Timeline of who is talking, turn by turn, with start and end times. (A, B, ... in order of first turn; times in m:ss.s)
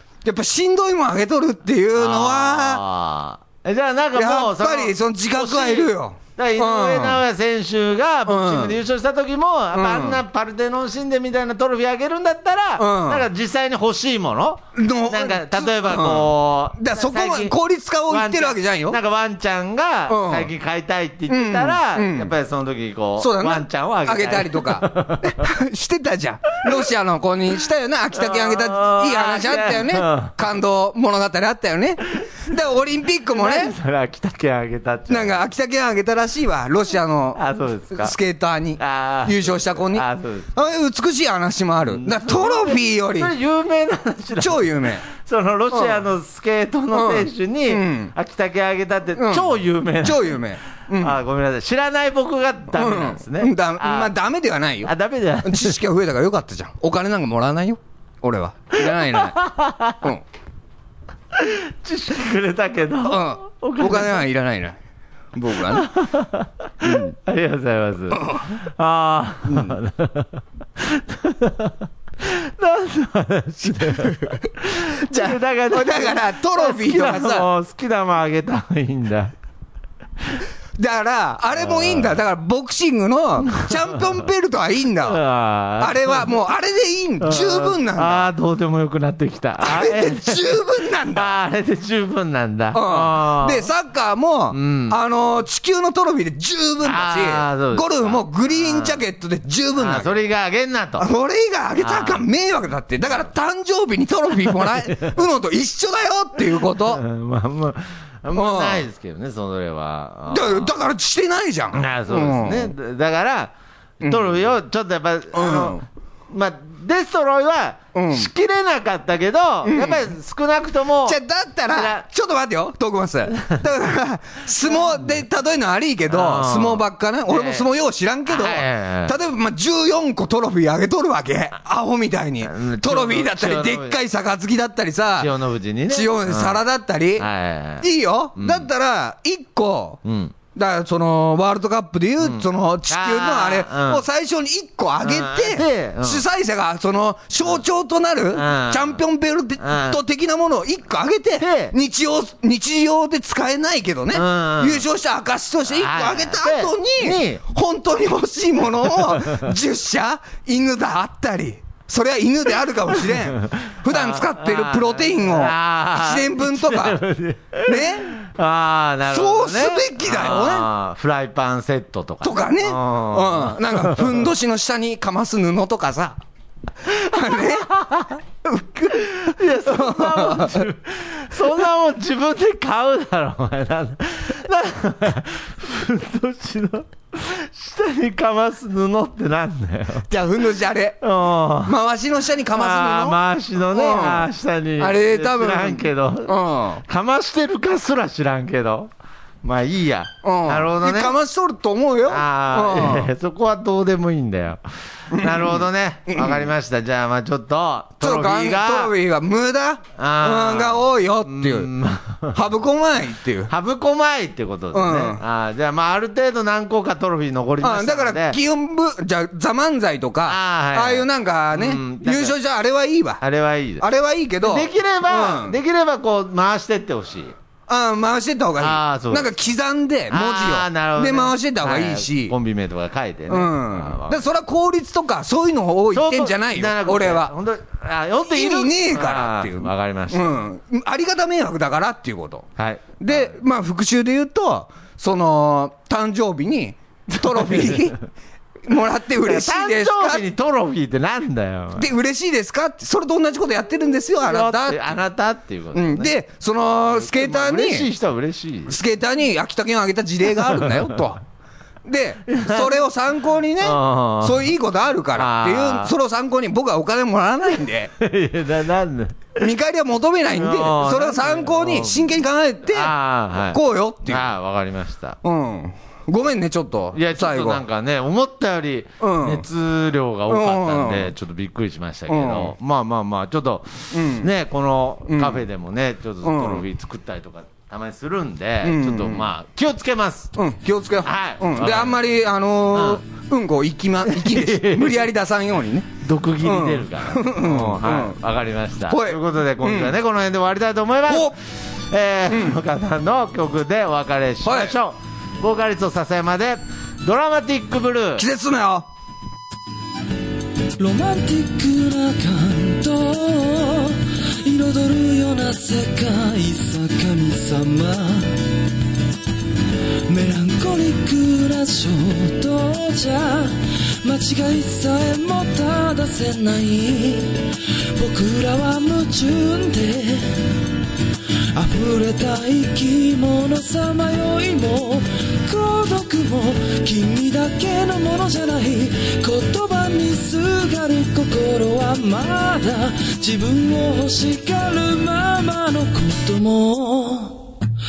0:00.2-0:02.8 A
0:02.0-0:17.6 B
0:04.1-0:07.2 A
0:08.2-0:08.8 A
0:09.7-0:10.2 A
0:12.8-0:13.3 A
0:14.7-0:19.0 A
0:18.1-0:25.4 B
0:20.1-0:20.5 A
0:21.3-0:22.3 A
0:23.2-0:33.7 A
0:28.1-0:30.4 B
0:33.3-0:35.4 B
0:35.1-0:43.3 A
0:37.3-0:38.1 B
0:38.8-0:40.5 B
0:41.9-0:54.1 B
0:44.4-0:45.0 A
0:45.7-0:46.0 A
0:46.9-0:48.1 A
0:49.2-0:51.2 A
0:52.7-0:54.9 A
0:54.8-0:55.8 B
0:55.4-1:00.2 A
0:58.8-1:00.0 B
1:01.3-1:04.2 B
1:03.0-1:04.8 A
1:05.3-1:05.9 A
1:05.7-1:19.3 B
1:08.1-1:08.5 A
1:13.6-1:14.4 A
1:15.1-1:17.5 A
1:20.8-1:25.2 A
1:21.6-1:22.1 B
1:23.5-1:24.0 B
1:25.0-1:26.3 B
1:25.8-1:28.3 A
1:27.2-1:33.7 B
1:29.6-1:31.4 A
1:32.7-1:40.2 A
1:34.5-1:35.0 B
1:36.8-1:39.0 B
1:39.8-1:41.1 B
1:41.0-1:47.0 A
1:41.8-1:42.2 B
1:44.5-1:45.1 B
1:46.6-1:50.7 B
1:48.3-1:48.8 A
1:50.3-1:52.7 A
1:51.7-2:02.0 B
1:54.0-1:54.4 A
1:55.3-1:55.8 A
1:57.9-1:58.3 A
1:59.6-2:00.1 A
2:01.0-2:17.3 A
2:04.7-2:05.0 B
2:06.1-2:07.6 B
2:08.2-2:09.1 B
2:12.4-2:14.0 B
2:15.2-2:16.6 B
2:17.2-2:18.7 B
2:17.8-2:20.0 A
2:20.0-2:20.3 B
2:20.5-2:47.0 A
2:22.2-2:24.0 B
2:25.0-2:26.2 B
2:28.3-2:29.0 B
2:29.6-2:30.0 B
2:31.4-2:31.7 B
2:34.1-2:34.8 B
2:35.7-2:37.4 B
2:43.1-2:54.3 B
2:47.6-2:48.1 A
2:49.1-2:50.7 A
2:52.2-2:56.2 A
2:56.8-2:57.8 A
2:57.1-2:58.2 B
2:58.4-3:00.6 A
2:59.0-3:10.1 B
3:10.1-3:11.0 A
3:11.0-3:11.8 B
3:11.6-3:16.8 A
3:12.5-3:18.9 B
3:19.4-3:21.1 B
3:20.2-3:23.1 A
3:22.1-3:28.9 B
3:25.1-3:26.5 A
3:28.0-3:31.7 A
3:30.0-3:32.4 B
3:32.3-3:33.5 A
3:33.5-3:38.4 B
3:34.7-3:35.2 A
3:37.6-3:43.2 A
3:40.2-3:42.4 B
3:43.2-3:43.8 B
3:43.8-3:45.6 A
3:44.4-3:47.3 B
3:47.7-3:52.3 A
3:48.6-3:49.4 B
3:50.1-3:54.2 B
3:53.3-3:57.3 A
3:55.9-4:00.4 B
3:58.2-4:02.5 A
4:02.6-4:03.3 B
4:03.0-4:08.0 A
4:07.1-4:07.9 B
4:08.6-4:10.2 A
4:09.2-4:11.9 B
4:11.8-4:15.0 A
4:14.2-4:16.1 B
4:15.7-4:17.9 A
4:16.9-4:18.8 B
4:18.7-4:21.2 A
4:20.4-4:21.0 B
4:21.8-4:27.9 A
4:22.3-4:22.8 B
4:23.6-4:24.5 B
4:25.1-4:25.9 B
4:28.0-4:29.5 B
4:29.4-4:32.9 A
4:30.3-4:32.1 B
4:32.7-4:35.2 B
4:33.5-4:34.3 A
4:35.2-4:37.6 A
4:36.9-4:50.3 B
4:39.0-4:39.4 A
4:40.3-4:41.1 A
4:42.1-4:42.5 A
4:43.9-4:44.3 A
4:45.1-4:45.4 A
4:46.2-4:46.6 A
4:48.6-4:49.3 A
4:50.4-4:55.9 A
4:51.0-4:52.0 B
4:52.7-4:53.0 B
4:54.0-4:55.0 B
4:56.0-5:08.2 B
4:56.4-4:58.2 A
4:58.9-4:59.9 A
5:01.1-5:01.4 A
5:02.3-5:02.6 A
5:04.4-5:04.7 A
5:08.2-5:08.9 A
5:10.8-5:18.6 C
5:20.1-5:30.6 C
5:31.5-5:47.6 C